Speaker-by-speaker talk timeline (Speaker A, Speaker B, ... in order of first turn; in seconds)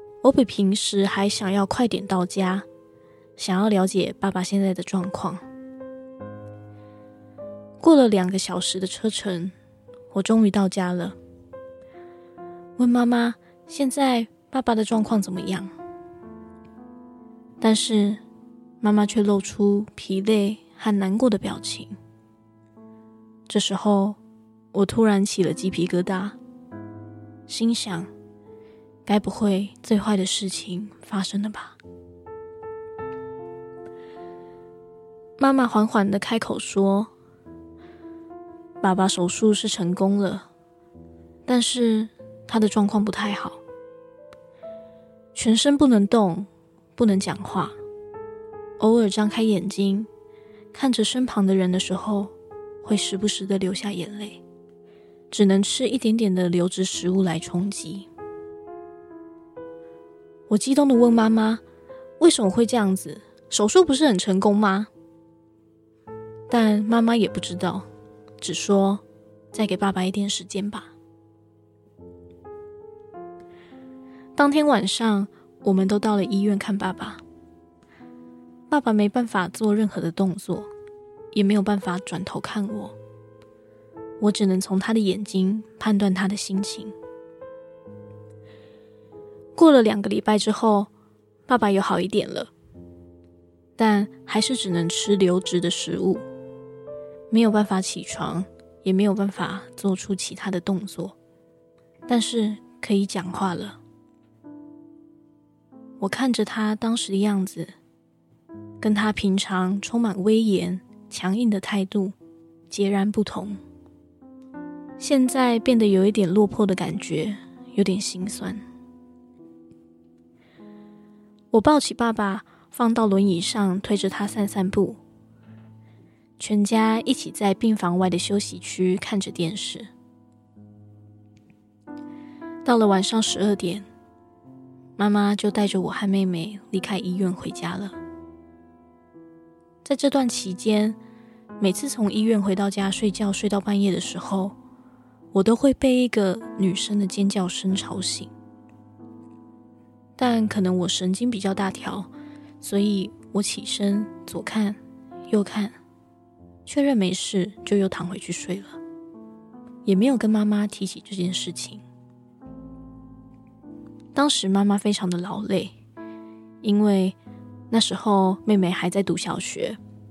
Speaker A: 0.2-2.6, 3.4-5.4, 7.8-9.5, 10.1-11.2, 12.8-15.7, 17.6-18.2, 18.8-21.9, 23.5-24.2, 24.7-26.4, 27.5-28.1, 29.1-31.8, 35.4-37.1, 38.8-40.4, 41.5-43.6, 45.3-47.8, 48.8-50.1, 50.7-54.4, 55.3-58.1, 60.5-61.6, 62.2-64.9, 66.5-67.8, 68.4-70.9, 74.4-77.2, 78.7-80.7, 81.3-82.9, 84.2-86.9, 89.5-90.9, 91.5-92.5, 93.8-96.2, 97.3-101.1, 102.1-103.8, 106.0-107.7, 108.8-112.1, 112.7-113.6, 115.0-118.6, 121.5-125.0, 126.4-129.9, 132.6-133.8, 135.0-137.9, 139.8-141.0, 141.6-144.5, 145.3-148.3, 150.2-152.1, 152.6-154.8, 155.3-155.7, 156.7-158.8, 159.8-161.8, 164.1-165.7, 166.6-167.2, 167.7-169.8